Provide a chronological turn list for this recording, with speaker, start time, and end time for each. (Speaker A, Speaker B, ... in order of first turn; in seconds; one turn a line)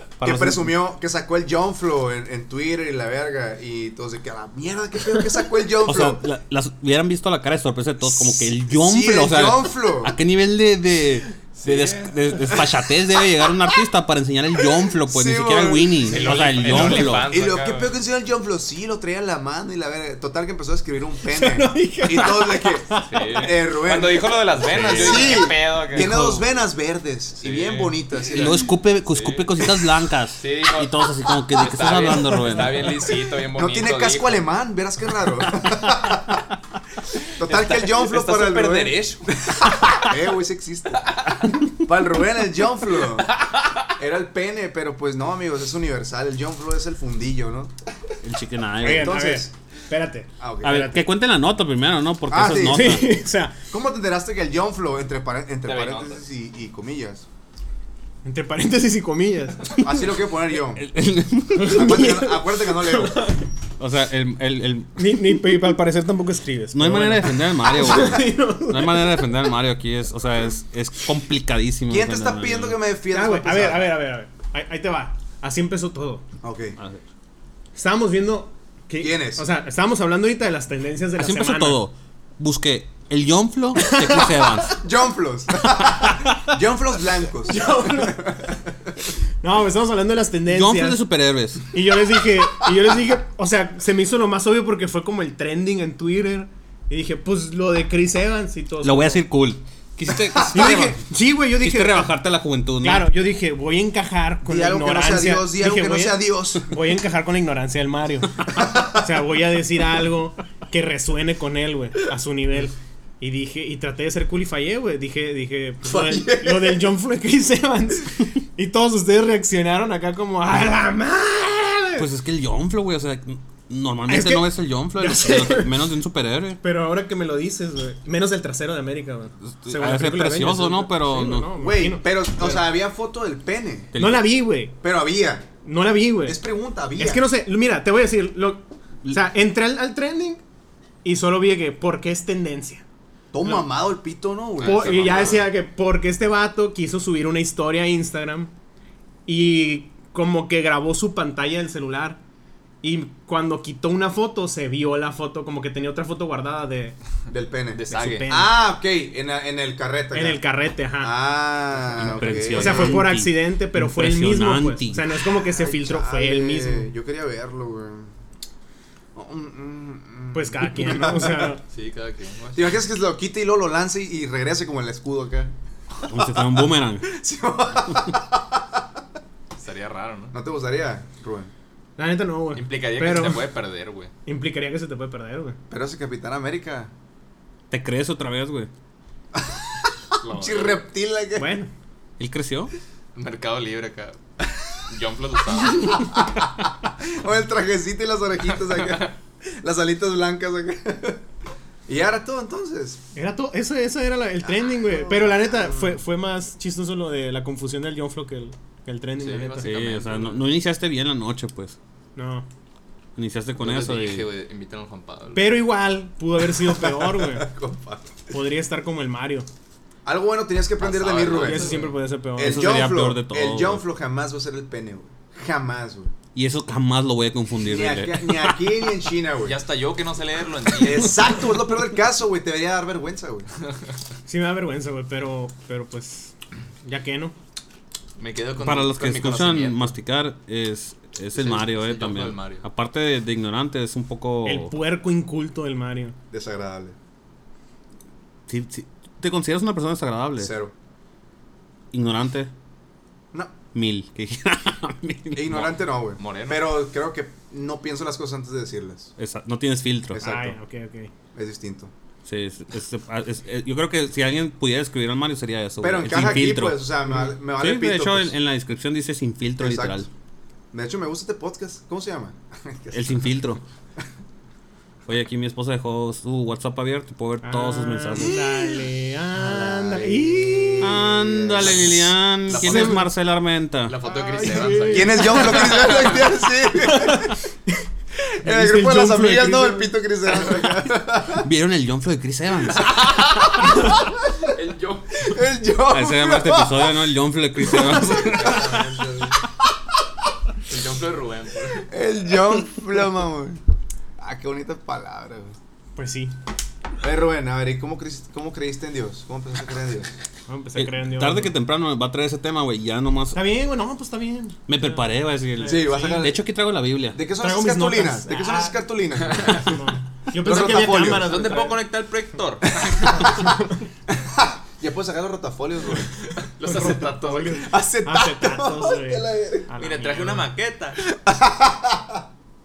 Speaker A: 0.2-0.8
Speaker B: 0.2-6.2
Speaker A: 5.9-17.3
Speaker B: 8.2-10.2
Speaker C: 11.6-12.4
Speaker B: 15.0-28.7
Speaker C: 16.1-17.9
Speaker D: 16.4-17.1
Speaker D: 21.3-23.5
Speaker C: 23.1-26.2
Speaker A: 24.6-26.4
Speaker C: 27.4-29.8
Speaker A: 28.3-33.1
Speaker C: 30.4-34.5
Speaker B: 33.5-36.4
Speaker B: 37.4-41.1
Speaker C: 37.4-39.5
Speaker C: 41.0-41.4
Speaker B: 41.8-43.3
Speaker C: 43.2-43.8
Speaker B: 44.0-47.7
Speaker A: 48.2-49.2
Speaker B: 48.8-49.5
Speaker D: 48.8-51.1
Speaker B: 50.4-50.9
Speaker A: 50.6-53.2
Speaker B: 52.3-57.3
Speaker D: 52.6-53.5
Speaker C: 55.6-56.2
Speaker D: 58.2-59.6
Speaker B: 59.8-60.9
Speaker A: 60.7-62.3
Speaker B: 61.6-63.3
Speaker D: 61.6-63.5
Speaker A: 63.8-65.0
Speaker D: 65.0-69.3
Speaker A: 66.7-72.8
Speaker B: 71.9-73.9
Speaker D: 73.1-76.2
Speaker B: 76.4-76.8
Speaker A: 76.8-77.0
Speaker D: 77.8-81.8
Speaker B: 79.0-79.5
Speaker A: 81.2-84.8
Speaker D: 83.8-84.6
Speaker B: 84.7-88.9
Speaker D: 87.5-88.4
Speaker D: 89.4-91.0
Speaker A: 90.5-91.7
Speaker D: 91.7-99.2
Speaker A: 98.8-101.0
Speaker D: 100.5-102.1
Speaker A: 101.6-103.1
Speaker D: 102.8-122.1
Speaker B: 104.5-106.7
Speaker B: 108.5-109.0
Speaker B: 115.8-116.8
Speaker A: 122.0-126.6
Speaker D: 124.1-125.9
Speaker D: 126.6-132.7
Speaker A: 129.5-131.5
Speaker B: 131.6-133.9
Speaker A: 133.9-134.2
Speaker D: 134.0-134.8
Speaker B: 134.8-135.5
Speaker D: 135.6-136.4
Speaker B: 136.2-137.2
Speaker D: 137.0-140.4
Speaker D: 141.0-142.8
Speaker B: 143.3-145.4
Speaker C: 144.6-145.5
Speaker D: 144.6-148.5
Speaker D: 149.3-152.2
Speaker D: 152.8-157.0
Speaker B: 157.3-160.4
Speaker C: 157.7-158.3
Speaker D: 157.9-158.5
Speaker D: 160.1-161.1
Speaker B: 161.0-163.1
Speaker A: 162.0-165.1
Speaker D: 162.6-166.9
Speaker B: 165.4-168.1
Speaker B: 169.2-171.6
Speaker D: 170.3-171.6
Speaker C: 171.7-172.8
Speaker B: 172.6-178.8
Speaker A: 176.1-177.1
Speaker C: 179.6-180.3
Speaker B: 180.3-181.5
Speaker D: 182.0-183.5
Speaker C: 182.6-184.1
Speaker D: 184.3-185.6
Speaker B: 185.7-186.9
Speaker A: 187.7-188.7
Speaker B: 189.3-191.5
Speaker C: 190.2-190.8
Speaker D: 191.4-191.7
Speaker A: 192.2-192.7
Speaker C: 193.2-194.2
Speaker C: 194.9-196.2
Speaker B: 195.7-201.2
Speaker C: 198.8-199.1
Speaker B: 201.9-203.0
Speaker D: 203.2-209.7
Speaker B: 204.6-205.9
Speaker C: 209.2-210.4
Speaker A: 209.6-211.8
Speaker D: 212.2-212.5
Speaker A: 213.2-214.3
Speaker C: 213.6-215.6
Speaker D: 215.3-217.5
Speaker B: 216.6-218.3
Speaker D: 218.3-219.5
Speaker B: 220.1-221.8
Speaker C: 220.8-221.9
Speaker D: 221.3-222.7
Speaker B: 222.4-226.1
Speaker A: 222.4-223.8
Speaker A: 226.3-228.5
Speaker B: 227.6-229.6
Speaker C: 229.4-231.2
Speaker B: 230.8-233.5
Speaker D: 234.3-237.3
Speaker C: 238.2-239.9
Speaker A: 238.6-244.7
Speaker C: 241.3-242.7
Speaker D: 244.4-246.2
Speaker B: 246.3-246.9
Speaker A: 248.5-250.5
Speaker B: 250.4-250.7
Speaker A: 251.9-252.5
Speaker A: 253.7-255.7
Speaker B: 255.3-259.1
Speaker C: 255.5-256.7
Speaker A: 259.2-260.2
Speaker B: 260.1-260.6
Speaker D: 260.2-261.1
Speaker B: 261.3-261.9
Speaker A: 262.3-270.1
Speaker B: 265.8-268.3
Speaker B: 269.6-270.1
Speaker B: 270.7-273.4
Speaker A: 272.9-273.6
Speaker A: 275.1-278.4
Speaker D: 277.4-281.0
Speaker B: 278.2-278.8
Speaker B: 279.4-282.1
Speaker A: 280.8-283.9
Speaker C: 281.6-283.1
Speaker D: 282.6-283.0
Speaker C: 283.9-286.3
Speaker D: 284.1-285.8
Speaker B: 284.9-287.4
Speaker D: 286.8-287.8
Speaker D: 288.4-289.9
Speaker B: 288.4-291.5
Speaker A: 291.4-293.1
Speaker C: 292.9-295.4
Speaker B: 293.5-294.1
Speaker B: 295.2-297.1
Speaker A: 295.9-298.7
Speaker B: 297.7-299.3
Speaker C: 297.9-299.4
Speaker C: 300.7-301.9
Speaker B: 301.9-303.6
Speaker B: 304.2-305.6
Speaker D: 306.0-306.3
Speaker B: 307.0-310.1
Speaker D: 310.5-311.5
Speaker A: 310.8-313.4
Speaker D: 313.3-316.2
Speaker A: 314.7-317.2
Speaker B: 315.6-316.4
Speaker B: 317.1-319.8
Speaker D: 317.4-321.8
Speaker C: 319.3-319.6
Speaker B: 320.3-321.3
Speaker C: 320.6-323.4
Speaker B: 322.8-323.5
Speaker D: 323.3-323.7
Speaker B: 324.1-326.1
Speaker C: 326.4-327.7
Speaker D: 326.6-330.5
Speaker B: 327.4-329.7
Speaker C: 329.8-331.0
Speaker B: 331.1-332.3